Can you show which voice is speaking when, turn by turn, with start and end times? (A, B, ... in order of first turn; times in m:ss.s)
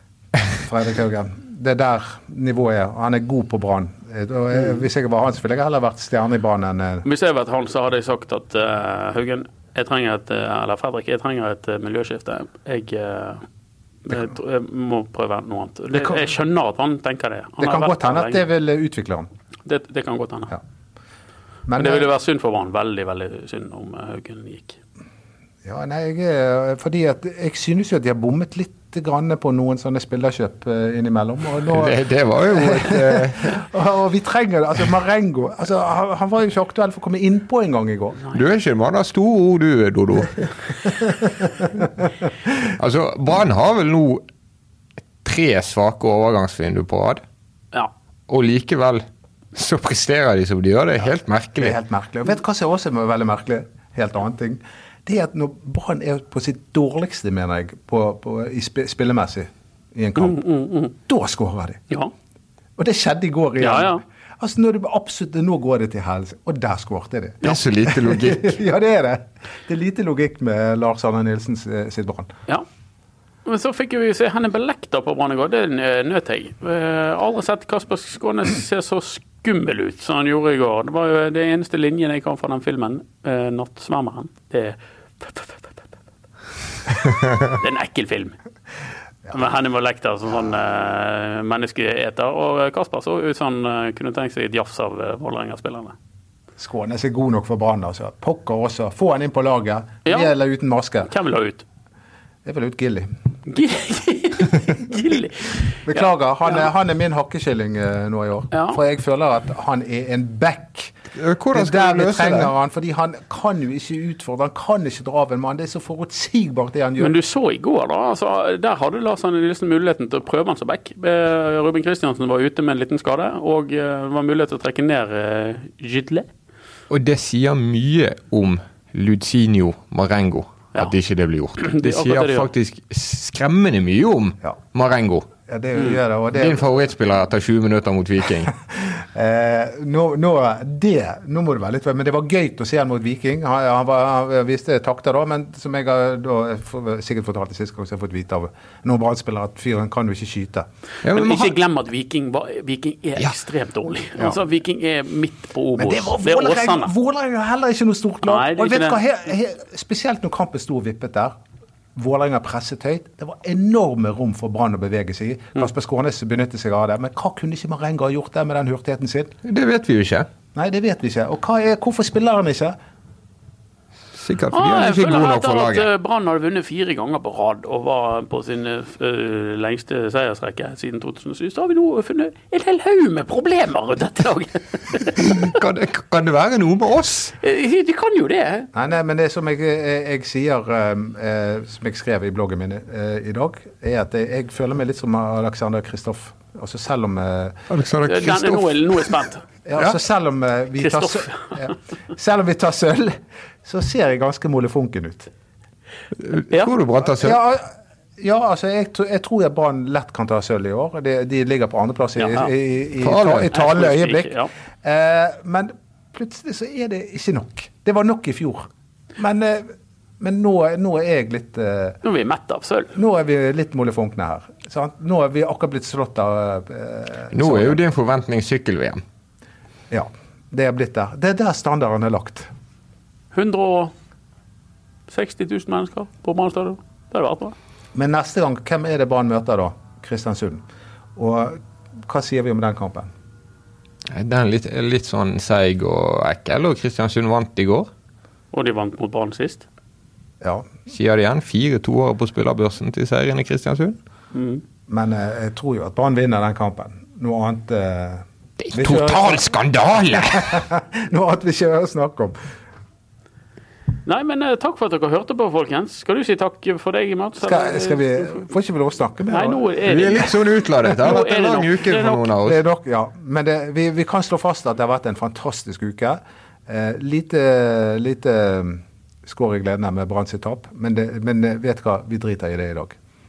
0:00.5-0:07.0 A
0:07.0-0:13.4 B
0:14.0-0:18.4 B
0:17.6-0:19.3 A
0:19.6-0:20.6 B
0:21.7-0:22.1 A
0:21.7-0:24.8 B
0:25.6-0:38.2 A
0:31.7-0:33.6 C
0:38.3-0:40.5 C
0:42.6-0:44.2 C
0:45.2-0:47.2 C
0:48.3-0:51.8 C
0:51.6-1:00.4 A
1:00.2-1:00.9 B
1:00.9-1:01.8 A
1:02.8-1:12.3 A
1:03.6-1:04.0 B
1:07.4-1:08.6 C
1:13.4-1:25.6 B
1:27.4-1:28.4 B
1:29.3-1:35.9 B
1:36.6-1:41.1 A
1:40.0-1:40.3 B
1:41.0-1:41.6 B
1:42.4-1:43.1 A
1:43.4-1:46.6 B
1:45.8-1:50.9 A
1:48.5-1:48.8 B
1:51.2-1:52.5 C
1:51.5-1:57.2 A
1:57.0-2:06.3 B
2:06.9-2:15.3 C
2:11.6-2:12.5 B
2:15.5-2:16.6 A
2:16.3-2:18.5 C
2:18.7-2:30.7 A
2:31.0-2:31.5 C
2:31.1-2:36.9 B
2:35.8-2:41.4 A
2:38.2-2:39.0 B
2:41.9-2:49.3 A
2:49.4-2:50.3 C
2:50.5-2:52.8 A
2:54.1-2:55.9 C
2:54.5-3:05.4 B
3:05.2-3:07.3 C
3:07.4-3:08.7 B
3:08.7-3:17.6 A
3:17.7-3:18.9 C
3:18.0-3:19.4 B
3:19.6-3:25.3 A
3:20.8-3:21.7 B
3:26.2-3:27.4 C
3:27.0-3:42.0 A
3:32.2-3:32.5 B
3:33.0-3:33.7 C
3:33.5-3:34.5 B
3:42.0-3:42.9 B
3:42.9-3:47.8 A
3:47.3-3:49.0 C
3:49.9-3:52.5 A
3:53.3-3:53.9 B
3:55.1-3:57.6 B
3:57.9-4:00.6 A
4:01.2-4:03.1 A
4:04.1-4:07.9 C
4:08.5-4:09.6 B
4:10.4-4:10.7 A
4:10.9-4:14.0 C
4:14.3-4:14.6 B
4:14.9-4:19.6 A
4:18.6-4:20.6 C
4:20.1-4:22.4 A
4:24.0-4:28.4 B
4:27.4-4:29.6 A
4:29.3-4:32.3 B
4:29.9-4:32.6 C
4:32.4-4:43.0 A